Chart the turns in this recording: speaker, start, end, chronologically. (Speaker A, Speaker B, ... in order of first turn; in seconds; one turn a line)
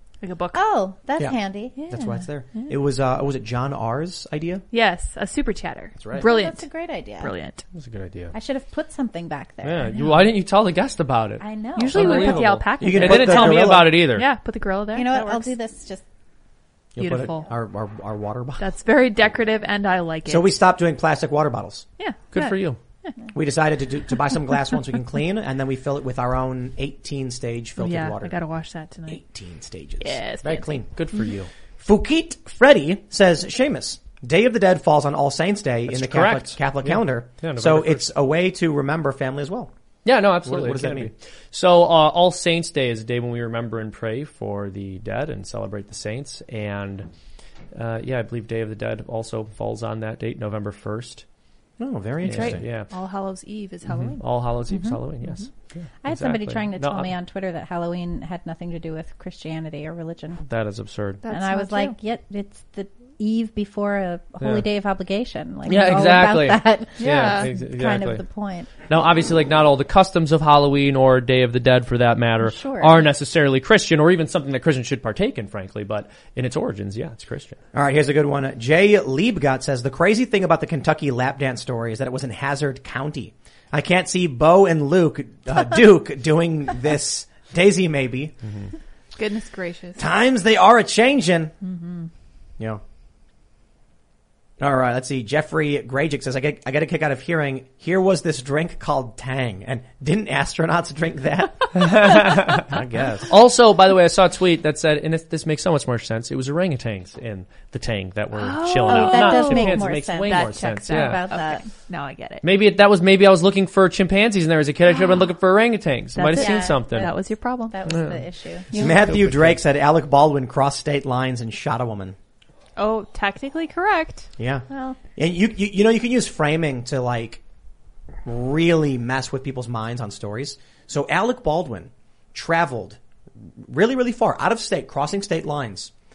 Speaker A: 0.2-0.6
Speaker B: 0.5-1.8
Speaker A: 1.8-2.8
Speaker C: 1.9-4.6
Speaker A: 4.7-6.7
Speaker C: 6.0-6.2
Speaker B: 6.1-7.3
Speaker A: 7.2-7.6
Speaker D: 7.8-8.3
Speaker B: 8.3-10.1
Speaker D: 9.6-14.3
Speaker B: 11.4-12.4
Speaker A: 11.8-15.5
Speaker C: 12.8-14.0
Speaker B: 14.9-16.0
Speaker C: 17.0-18.6
Speaker A: 17.0-17.5
Speaker A: 18.6-20.5
Speaker C: 20.3-21.9
Speaker A: 22.0-22.6
Speaker D: 22.3-22.8
Speaker C: 23.3-28.4
Speaker A: 27.8-29.2
Speaker C: 29.1-30.9
Speaker A: 30.0-30.7
Speaker D: 31.0-31.5
Speaker C: 31.8-39.7
Speaker D: 35.9-38.1
Speaker D: 40.0-47.1
Speaker C: 40.5-41.1
Speaker D: 47.7-51.2
Speaker C: 51.8-52.6
Speaker D: 52.2-52.9
Speaker A: 52.3-54.2
Speaker D: 53.9-57.1
Speaker B: 54.7-55.0
Speaker B: 56.0-60.4
Speaker D: 60.5-61.2
Speaker A: 61.2-62.0
Speaker B: 61.3-68.7
Speaker D: 64.4-64.7
Speaker D: 65.7-68.2
Speaker A: 67.0-67.5
Speaker D: 68.9-77.6
Speaker B: 72.4-73.0
Speaker C: 77.7-88.3
Speaker A: 89.2-90.0
Speaker C: 90.0-91.5
Speaker A: 91.7-92.1
Speaker C: 94.6-101.9
Speaker D: 101.8-102.7
Speaker C: 102.5-103.3
Speaker D: 103.3-111.2
Speaker A: 108.3-112.5
Speaker B: 108.8-111.6
Speaker D: 112.4-117.1
Speaker A: 114.9-115.3
Speaker A: 116.2-117.8
Speaker B: 116.4-118.9
Speaker D: 117.9-118.2
Speaker D: 118.7-119.6
Speaker C: 118.8-122.2
Speaker A: 122.8-124.3
Speaker C: 124.4-127.4
Speaker B: 124.7-125.0
Speaker C: 128.2-133.0
Speaker C: 133.6-135.9